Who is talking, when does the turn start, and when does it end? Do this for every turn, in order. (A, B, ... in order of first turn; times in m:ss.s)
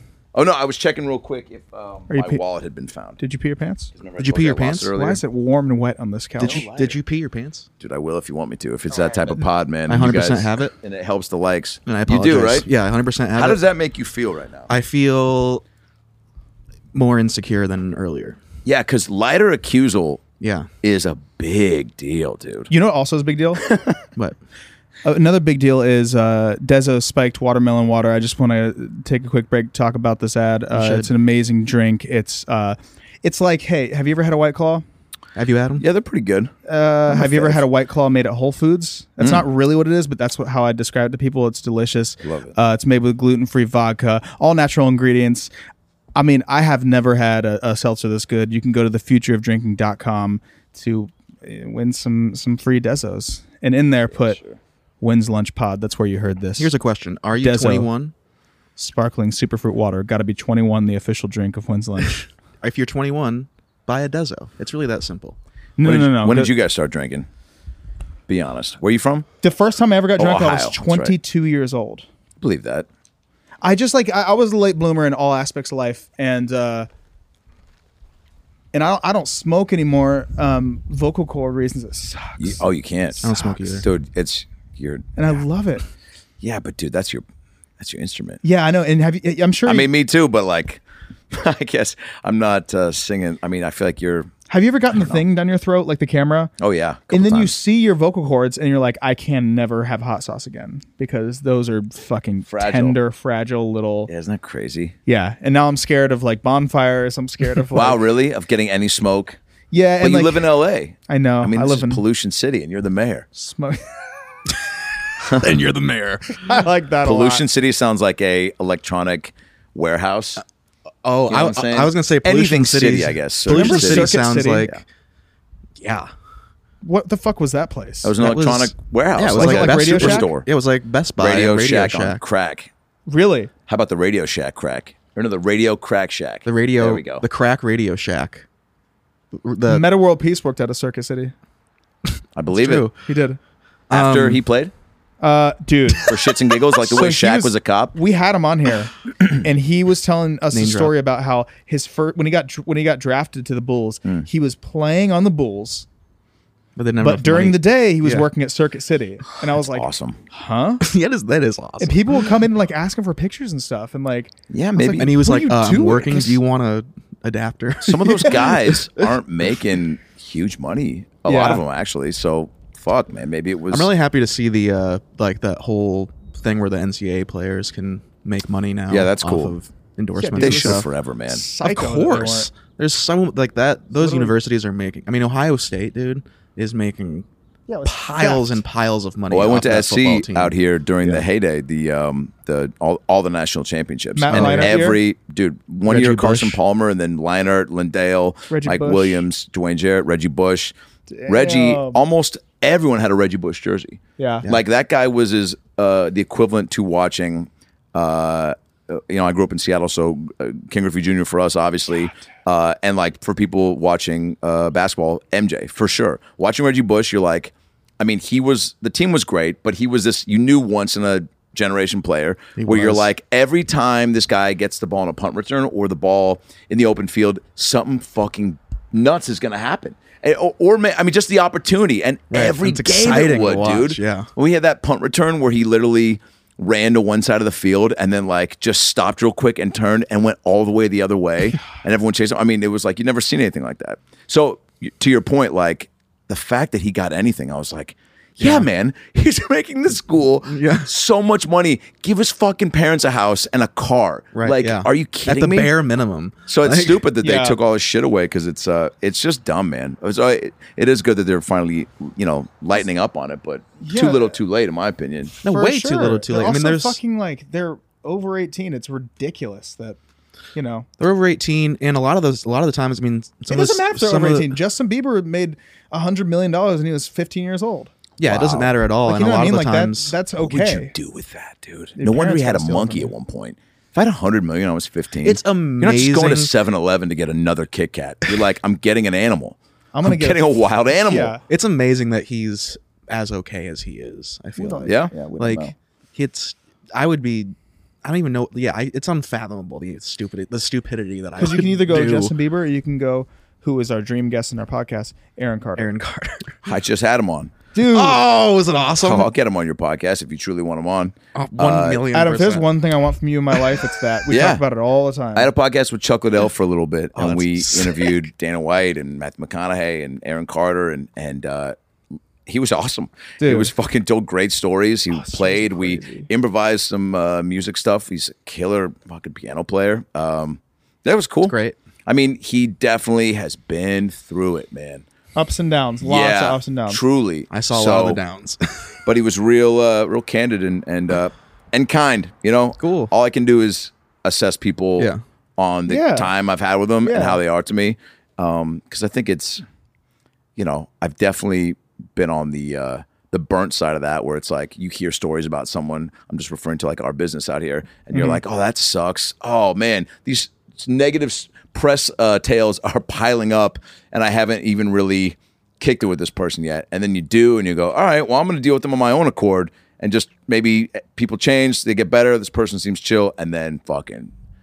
0:00.3-0:03.2 A
0:02.1-0:02.4 B
0:03.2-0:03.9 B
0:04.0-0:05.2 A
0:04.2-0:04.9 C
0:04.9-0:06.7 B
0:06.4-0:07.7 C
0:06.4-0:07.0 A
0:07.8-0:12.7 A
0:09.9-0:10.7 C
0:11.9-0:13.6 C
0:13.4-0:14.7 A
0:14.7-0:15.6 C
0:16.9-0:18.4 C
0:18.6-0:20.2 A
0:20.4-0:20.7 C
0:20.8-0:22.7 A
0:22.7-0:23.6 B
0:23.7-0:24.0 A
0:25.0-0:34.8 B
0:30.7-0:31.1 C
0:35.4-0:35.9 C
0:35.8-0:36.5 A
0:36.7-0:45.5 B
0:37.2-0:37.6 C
0:42.2-0:42.5 A
0:46.2-0:54.4 B
0:54.2-0:54.6 A
0:55.0-0:56.7 B
0:56.6-0:58.1 C
0:57.4-0:57.9 B
0:58.8-1:02.3 B
1:02.6-1:05.4 C
1:05.8-1:06.5 B
1:05.8-1:07.3 A
1:08.3-1:09.3 A
1:09.4-1:12.1 B
1:10.2-1:11.2 A
1:12.4-1:12.9 A
1:13.6-1:16.9 B
1:18.7-1:22.6 B
1:22.4-1:25.1 A
1:23.2-1:23.9 C
1:25.2-1:25.8 B
1:26.4-1:27.2 A
1:27.8-1:28.4 A
1:28.4-1:29.9 B
1:29.7-1:34.3 A
1:34.5-1:36.5 B
1:34.9-1:35.2 A
1:36.6-1:37.6 A
1:37.1-1:44.1 B
1:42.5-1:43.0 A
1:44.1-1:45.0 A
1:45.1-1:48.0 B
1:47.7-1:49.4 A
1:49.7-1:50.5 B
1:50.0-1:53.3 A
1:51.1-1:52.0 B
1:53.3-1:54.4 B
1:55.2-1:55.6 A
1:55.3-1:56.4 C
1:56.4-1:57.4 B
1:57.0-2:00.4 A
2:01.0-2:04.8 C
2:01.3-2:04.8 A
2:03.5-2:04.7 B
2:05.8-2:06.1 C
2:06.8-2:08.2 B
2:08.0-2:10.5 A
2:08.2-2:12.2 C
2:09.4-2:10.3 B
2:11.2-2:12.7 A
2:13.1-2:13.5 B
2:13.7-2:17.2 A
2:16.5-2:18.5 C
2:19.3-2:19.9 C
2:19.7-2:21.3 B
2:22.4-2:22.9 A
2:22.5-2:22.9 C
2:23.0-2:23.4 B
2:23.9-2:24.4 C
2:23.9-2:24.7 A
2:25.2-2:26.1 B
2:26.0-2:28.0 A
2:26.8-2:35.9 B
2:30.5-2:30.9 C
2:36.8-2:38.3 C
2:37.0-2:40.8 B
2:39.7-2:40.2 A
2:40.8-2:42.3 C
2:41.8-2:44.3 B
2:44.5-2:45.2 A
2:44.8-2:46.4 B
2:44.9-2:49.1 C
2:47.8-2:53.9 A
2:51.3-2:51.6 B
2:53.7-3:00.9 C
2:58.9-2:59.6 A
3:00.2-3:02.5 B
3:00.4-3:01.4 A
3:01.6-3:07.3 C
3:04.0-3:04.4 B
3:07.7-3:08.6 B
3:07.8-3:11.2 C
3:09.3-3:20.7 A
3:14.2-3:15.0 B
3:14.3-3:14.8 C
3:15.9-3:16.6 C
3:18.5-3:19.2 B
3:21.1-3:22.0 B
3:21.3-4:15.7 A
3:24.2-3:24.5 B
3:42.6-3:43.1 C
3:52.3-3:54.3 C
4:08.4-4:08.7 C
4:10.5-4:10.9 C
4:14.3-4:17.0 C
4:16.5-4:25.4 A
4:17.2-4:17.6 B
4:23.8-4:24.4 B
4:25.4-4:27.0 C
4:25.4-4:30.0 B
4:30.6-4:30.9 B
4:31.0-4:34.6 C
4:33.5-4:37.9 B
4:38.2-4:40.2 C
4:38.2-4:38.7 A
4:39.0-4:40.9 B
4:40.4-4:51.4 A
4:42.0-4:43.1 B
4:45.2-4:46.5 C
4:49.9-4:51.4 B
4:51.5-4:57.5 C
4:54.6-4:55.1 B
4:54.8-4:55.7 A
4:58.0-5:02.3 C
5:01.4-5:05.9 B
5:05.8-5:06.7 C
5:06.7-5:07.5 A
5:07.7-5:08.2 B
5:07.8-5:09.3 C
5:09.0-5:12.0 A
5:11.4-5:12.7 C
5:12.1-5:15.5 B
5:14.3-5:14.6 A
5:15.4-5:21.8 A
5:17.2-5:18.2 C
5:22.5-5:31.6 A
5:23.4-5:23.7 B
5:25.1-5:26.3 B
5:31.4-5:31.8 C
5:32.1-5:35.0 A
5:35.4-5:37.0 B
5:36.0-5:38.2 A
5:37.5-5:39.0 C
5:39.1-5:49.6 A
5:42.8-5:43.1 C
5:45.9-5:46.3 B
5:47.0-5:47.4 B
5:50.6-6:14.3 A
5:58.1-5:58.4 B